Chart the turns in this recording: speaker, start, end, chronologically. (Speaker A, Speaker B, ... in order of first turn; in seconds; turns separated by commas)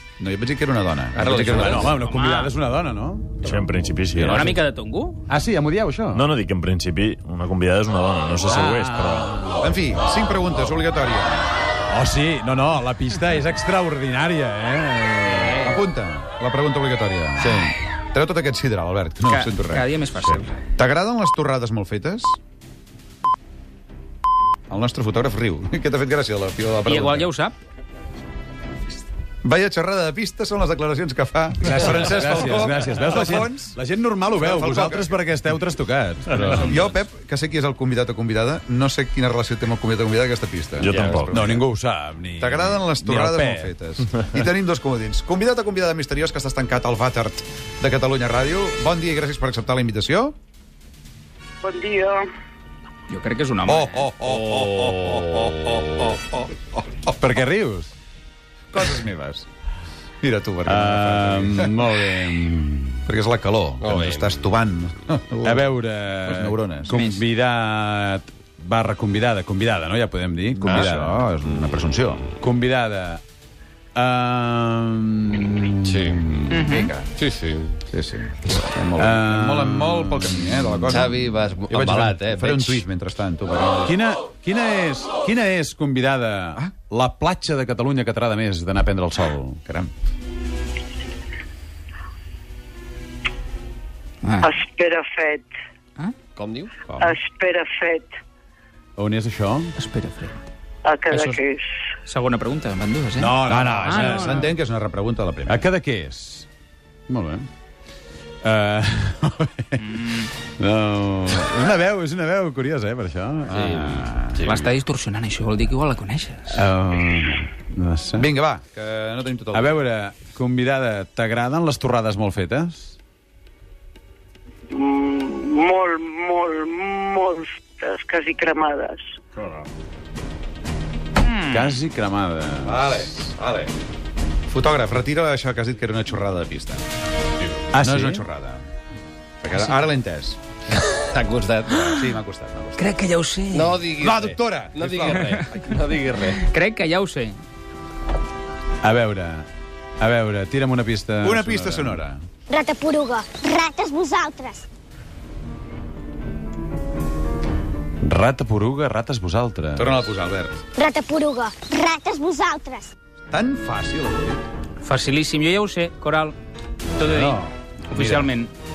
Speaker A: 0.2-1.9, Speaker B: 1.2-4.6, Speaker C: 1.6-2.5, Speaker D: 3.4-4.5, Speaker C: 4.2-5.2, Speaker B: 5.3-6.3, Speaker D: 6.1-9.4, Speaker B: 8.5-9.7, Speaker A: 9.6-11.5, Speaker B: 11.9-15.7, Speaker C: 15.3-15.6, Speaker A: 15.6-19.9, Speaker C: 19.3-20.6, Speaker A: 20.6-22.4, Speaker A: 24.7-27.3, Speaker C: 26.9-27.6, Speaker A: 29.4-33.8, Speaker B: 31.6-36.8, Speaker A: 34.3-35.2, Speaker A: 36.4-41.6, Speaker C: 36.4-36.9, Speaker D: 40.8-41.3, Speaker B: 41.3-44.5, Speaker A: 42.4-50.4, Speaker C: 53.1-54.0, Speaker A: 53.7-57.2, Speaker E: 54.3-56.1, Speaker B: 57.2-57.9, Speaker A: 58.7-59.5, Speaker A: 60.2-61.7, Speaker B: 60.6-63.0, Speaker A: 63.1-65.7, Speaker E: 63.8-64.4, Speaker B: 65.4-71.2, Speaker A: 66.2-67.0, Speaker C: 66.9-67.2, Speaker A: 70.6-72.3, Speaker E: 70.7-70.9, Speaker B: 72.4-73.2, Speaker B: 74.0-76.6, Speaker E: 75.8-76.6, Speaker C: 76.5-76.9, Speaker A: 76.6-77.1, Speaker E: 77.2-77.8, Speaker A: 77.9-84.0, Speaker B: 79.0-81.0, Speaker E: 80.9-82.8, Speaker B: 83.8-89.6, Speaker A: 89.7-89.9, Speaker C: 94.2-94.6, Speaker E: 96.4-96.7, Speaker A: 96.9-97.2, Speaker F: 97.1-97.6, Speaker B: 99.0-99.7, Speaker C: 99.8-100.3, Speaker C: 101.1-101.4, Speaker C: 102.1-104.5, Speaker B: 103.2-104.5, Speaker A: 103.5-105.7, Speaker B: 105.5-106.5, Speaker B: 107.1-107.5, Speaker B: 108.4-110.0, Speaker C: 109.9-110.3, Speaker B: 110.6-113.8, Speaker A: 113.5-114.6, Speaker E: 113.5-114.5, Speaker C: 114.4-116.6, Speaker B: 116.5-118.3, Speaker A: 118.2-119.8, Speaker B: 119.5-123.0, Speaker F: 125.4-126.3, Speaker F: 127.8-128.9, Speaker C: 131.3-131.7, Speaker B: 131.5-133.1, Speaker A: 132.7-133.7, Speaker A: 134.5-136.8, Speaker B: 137.7-138.2, Speaker A: 137.8-138.6, Speaker A: 139.4-140.4, Speaker C: 139.5-139.8, Speaker E: 141.0-141.9, Speaker A: 141.7-142.9, Speaker C: 142.8-143.8, Speaker E: 143.5-146.5, Speaker A: 144.0-145.7, Speaker C: 146.4-147.4, Speaker B: 148.8-149.5, Speaker B: 150.0-152.0, Speaker A: 151.2-152.2, Speaker G: 152.5-154.6, Speaker B: 158.0-160.0, Speaker A: 159.8-160.6, Speaker G: 160.8-162.9, Speaker A: 163.3-164.4, Speaker C: 164.8-166.3, Speaker C: 167.0-168.5, Speaker B: 167.0-168.3